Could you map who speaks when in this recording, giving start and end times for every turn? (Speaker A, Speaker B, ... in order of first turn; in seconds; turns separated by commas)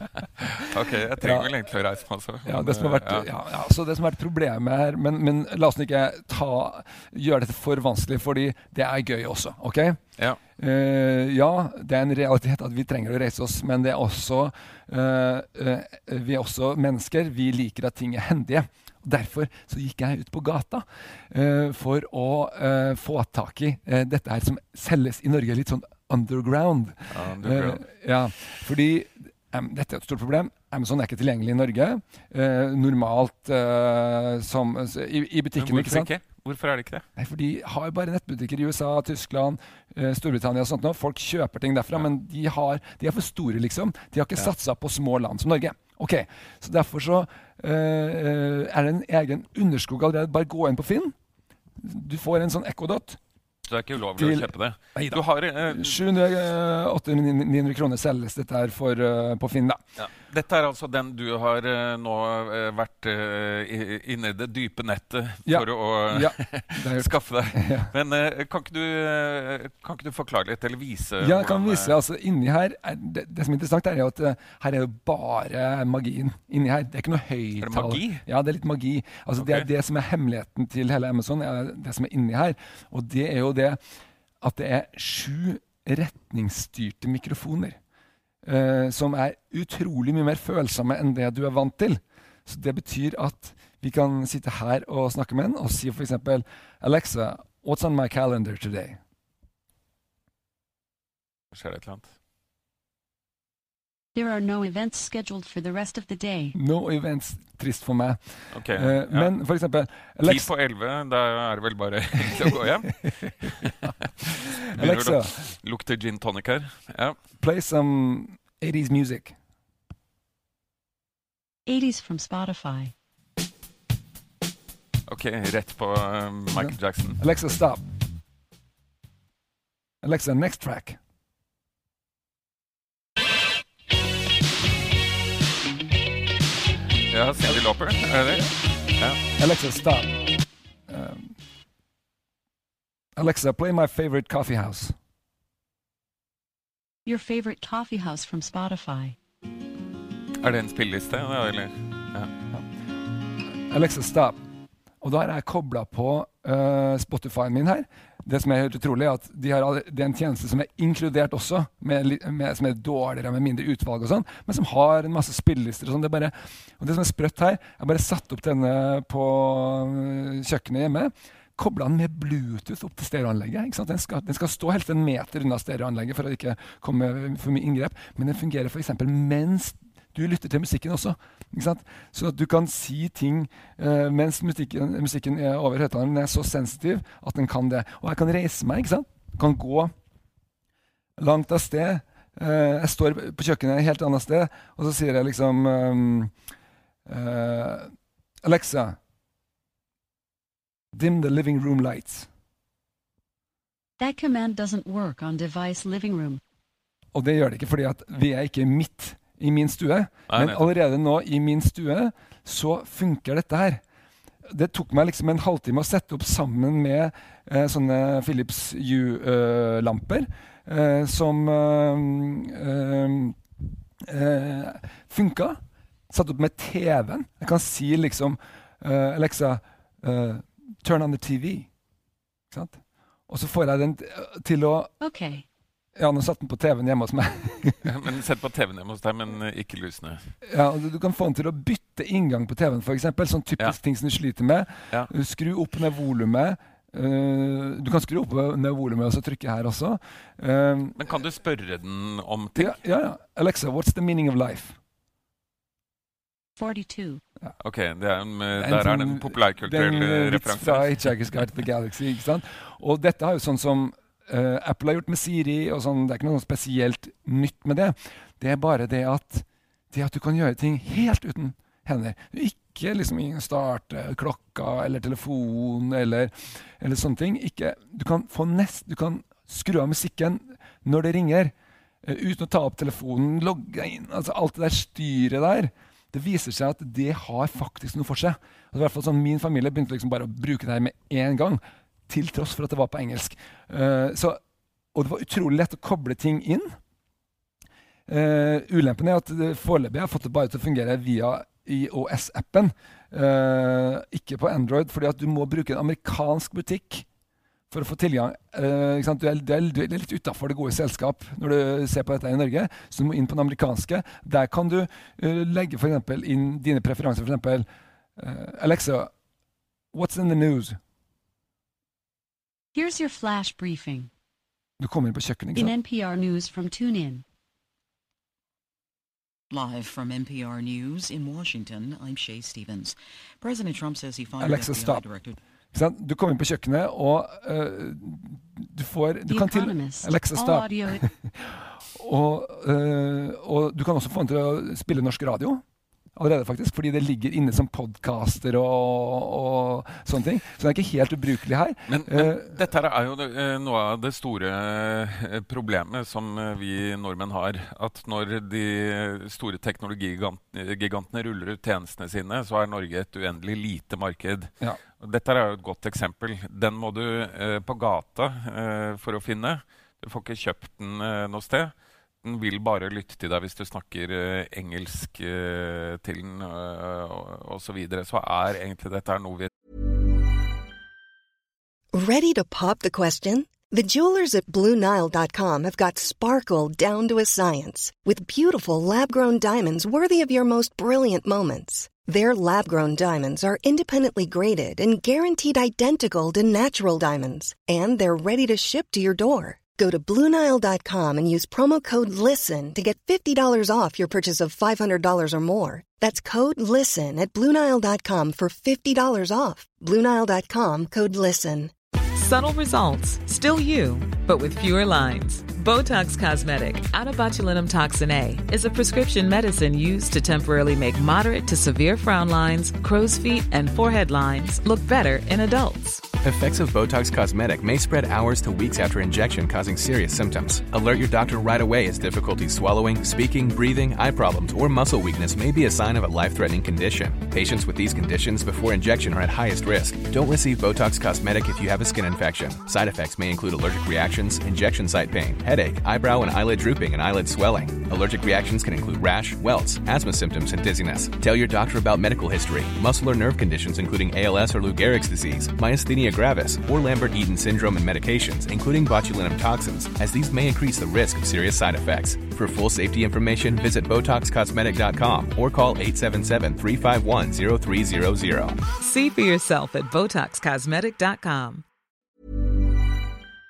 Speaker A: 0.5-3.3, Speaker B: 1.2-1.5, Speaker B: 2.4-10.0, Speaker B: 10.6-36.1, Speaker A: 27.1-27.9, Speaker A: 35.6-37.0, Speaker B: 37.1-51.1, Speaker B: 51.8-53.2, Speaker A: 53.6-56.0, Speaker B: 54.2-59.8, Speaker A: 60.0-71.9, Speaker B: 65.5-67.9, Speaker B: 71.2-83.8, Speaker A: 77.6-78.2, Speaker A: 79.4-79.7, Speaker B: 84.4-87.8, Speaker B: 88.4-99.0, Speaker A: 101.5-102.1, Speaker C: 104.1-106.5, Speaker B: 106.5-110.5, Speaker A: 108.5-109.3, Speaker A: 110.2-117.2, Speaker B: 112.4-113.2, Speaker B: 114.5-115.5, Speaker B: 117.4-119.3, Speaker C: 121.7-122.9, Speaker A: 125.1-127.2, Speaker B: 126.5-127.8, Speaker B: 130.0-131.0, Speaker A: 137.1-139.2, Speaker B: 139.3-140.2, Speaker B: 140.9-141.3, Speaker B: 143.2-144.9, Speaker C: 147.1-149.2, Speaker A: 150.4-152.3, Speaker B: 153.6-154.4, Speaker B: 155.0-189.9, Speaker B: 191.2-196.3, Speaker B: 197.1-197.9, Speaker B: 198.4-199.0, Speaker B: 200.9-202.3, Speaker C: 204.0-206.4, Speaker B: 207.1-213.8, Speaker A: 210.3-210.7, Speaker B: 214.4-223.4, Speaker B: 224.0-231.7, Speaker B: 232.5-234.9, Speaker C: 235.0-235.4, Speaker B: 235.9-237.9, Speaker A: 237.8-240.3, Speaker B: 240.4-251.0, Speaker A: 250.9-252.8, Speaker B: 252.5-254.8, Speaker C: 256.6-257.2, Speaker A: 257.6-261.1, Speaker B: 258.6-294.4, Speaker B: 294.9-296.8, Speaker B: 298.1-307.1, Speaker B: 307.7-317.6, Speaker B: 318.2-319.1, Speaker B: 319.9-320.8, Speaker C: 322.7-324.1, Speaker B: 324.8-325.7, Speaker C: 325.5-327.2, Speaker D: 329.5-335.4, Speaker B: 334.4-335.1, Speaker B: 335.7-345.6, Speaker C: 339.3-341.1, Speaker B: 346.1-352.6, Speaker A: 351.9-379.5, Speaker E: 381.9-411.7, Speaker F: 412.1-426.1, Speaker G: 426.2-468.6, Speaker F: 468.8-471.6